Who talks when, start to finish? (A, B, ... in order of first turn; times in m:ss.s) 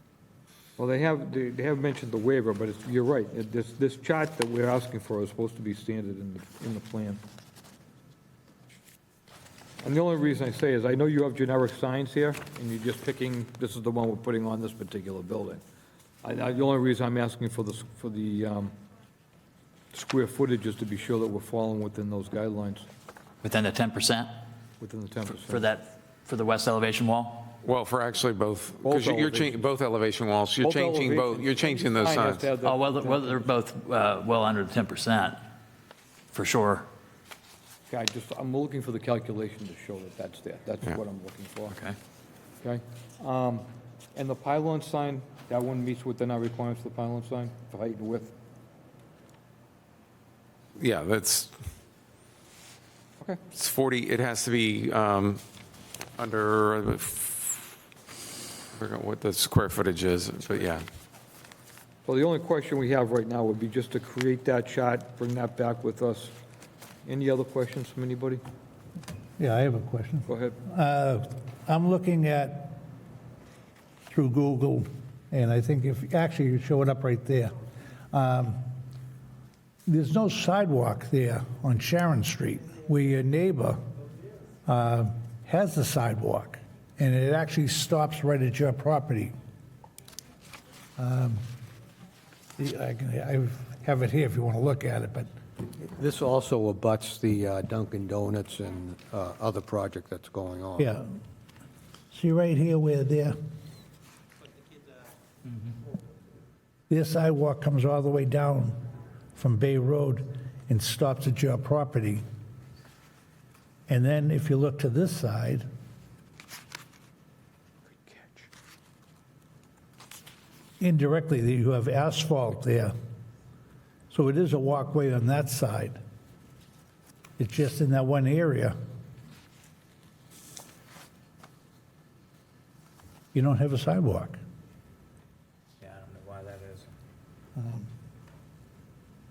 0:00.8-0:07.2 A
0:09.8-0:15.6 A
0:16.2-0:18.7 A
0:19.9-0:22.9 A
0:23.4-0:24.3 B
0:24.8-0:25.6 A
0:25.4-0:27.5 B
0:27.6-0:32.5 C
0:28.8-0:29.6 A
0:30.6-0:33.5 A
0:32.6-0:35.4 B
0:36.3-0:36.9 B
0:37.9-0:41.8 A
0:41.7-0:42.0 B
0:42.6-0:48.3 A
0:50.8-0:51.5 C
0:53.5-0:55.4 C
0:56.2-0:57.7 C
0:58.7-1:00.8 C
1:02.0-1:06.4 A
1:07.0-1:08.4 A
1:09.4-1:12.8 D
1:10.3-1:10.6 A
1:14.1-1:17.5 D
1:18.1-1:18.6 D
1:19.9-1:23.8 D
1:24.6-1:29.3 D
1:31.0-1:31.4 D
1:32.6-1:35.3 D
1:35.8-1:40.9 E
1:40.8-1:41.0 D
1:42.1-1:43.4 D
1:46.9-1:48.8 D
1:49.4-1:52.2 D
1:53.9-1:55.6 D
2:00.8-2:02.9 D
2:04.1-2:06.0 D
2:07.4-2:08.7 D
2:13.3-2:14.4 D
2:17.6-2:17.9 D